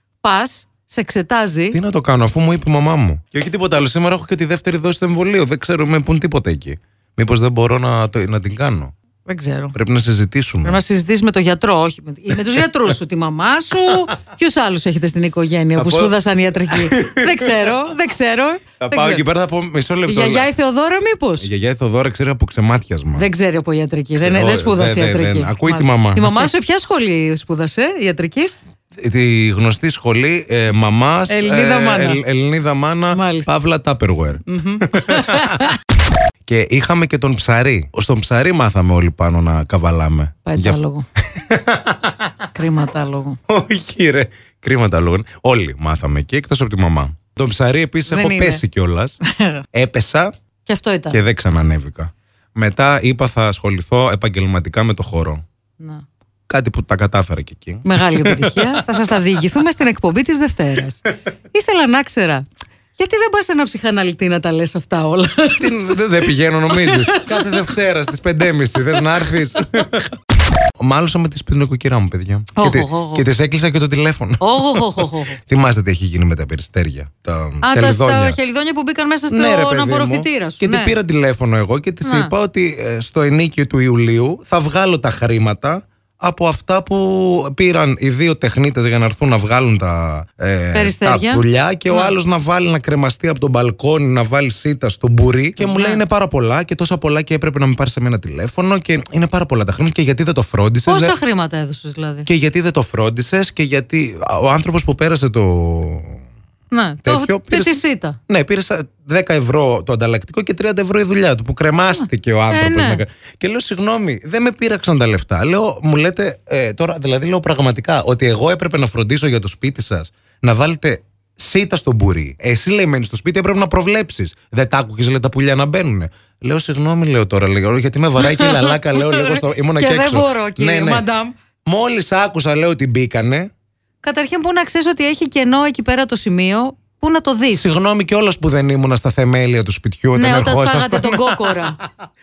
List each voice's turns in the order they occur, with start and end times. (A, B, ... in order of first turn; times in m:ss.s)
0:00.2-0:01.8 A
0:01.7-0:08.9 B
0:09.2-0:09.7 A
0:09.7-0:10.8 B
0:10.6-0:19.2 A
0:15.8-0:16.1 B
0:16.7-0:17.7 B
0:18.8-0:20.5 B
0:20.1-0:21.5 A
0:21.4-0:23.3 B
0:23.1-0:28.6 A
0:24.2-0:26.5 B
0:29.0-0:35.7 B
0:31.3-0:32.2 A
0:33.1-0:33.5 A
0:34.4-0:35.8 A
0:36.4-0:40.8 B
0:40.4-0:41.0 A
0:41.3-0:42.4 B
0:42.5-0:43.4 A
0:43.5-0:49.2 B
0:48.1-0:48.6 A
0:49.2-0:49.6 A
0:49.7-0:50.3 B
0:50.6-0:51.2 A
0:51.1-0:55.4 B
0:55.8-0:56.0 A
0:56.5-0:58.9 B
0:57.8-1:07.7 A
1:05.6-1:10.1 B
1:08.7-1:09.4 A
1:10.8-1:18.4 B
1:12.6-1:13.2 A
1:14.4-1:15.4 A
1:17.6-1:21.0 A
1:19.3-1:41.1 B
1:22.0-1:22.3 A
1:30.7-1:32.2 A
1:35.6-1:36.0 A
1:40.8-1:42.3 A
1:42.2-1:46.2 B
1:46.7-1:48.2 A
1:47.0-2:11.0 B
1:52.5-1:53.0 A
2:08.2-2:11.3 A
2:11.6-2:13.5 B
2:14.0-2:17.7 A
2:17.5-2:21.8 B
2:20.1-2:21.8 A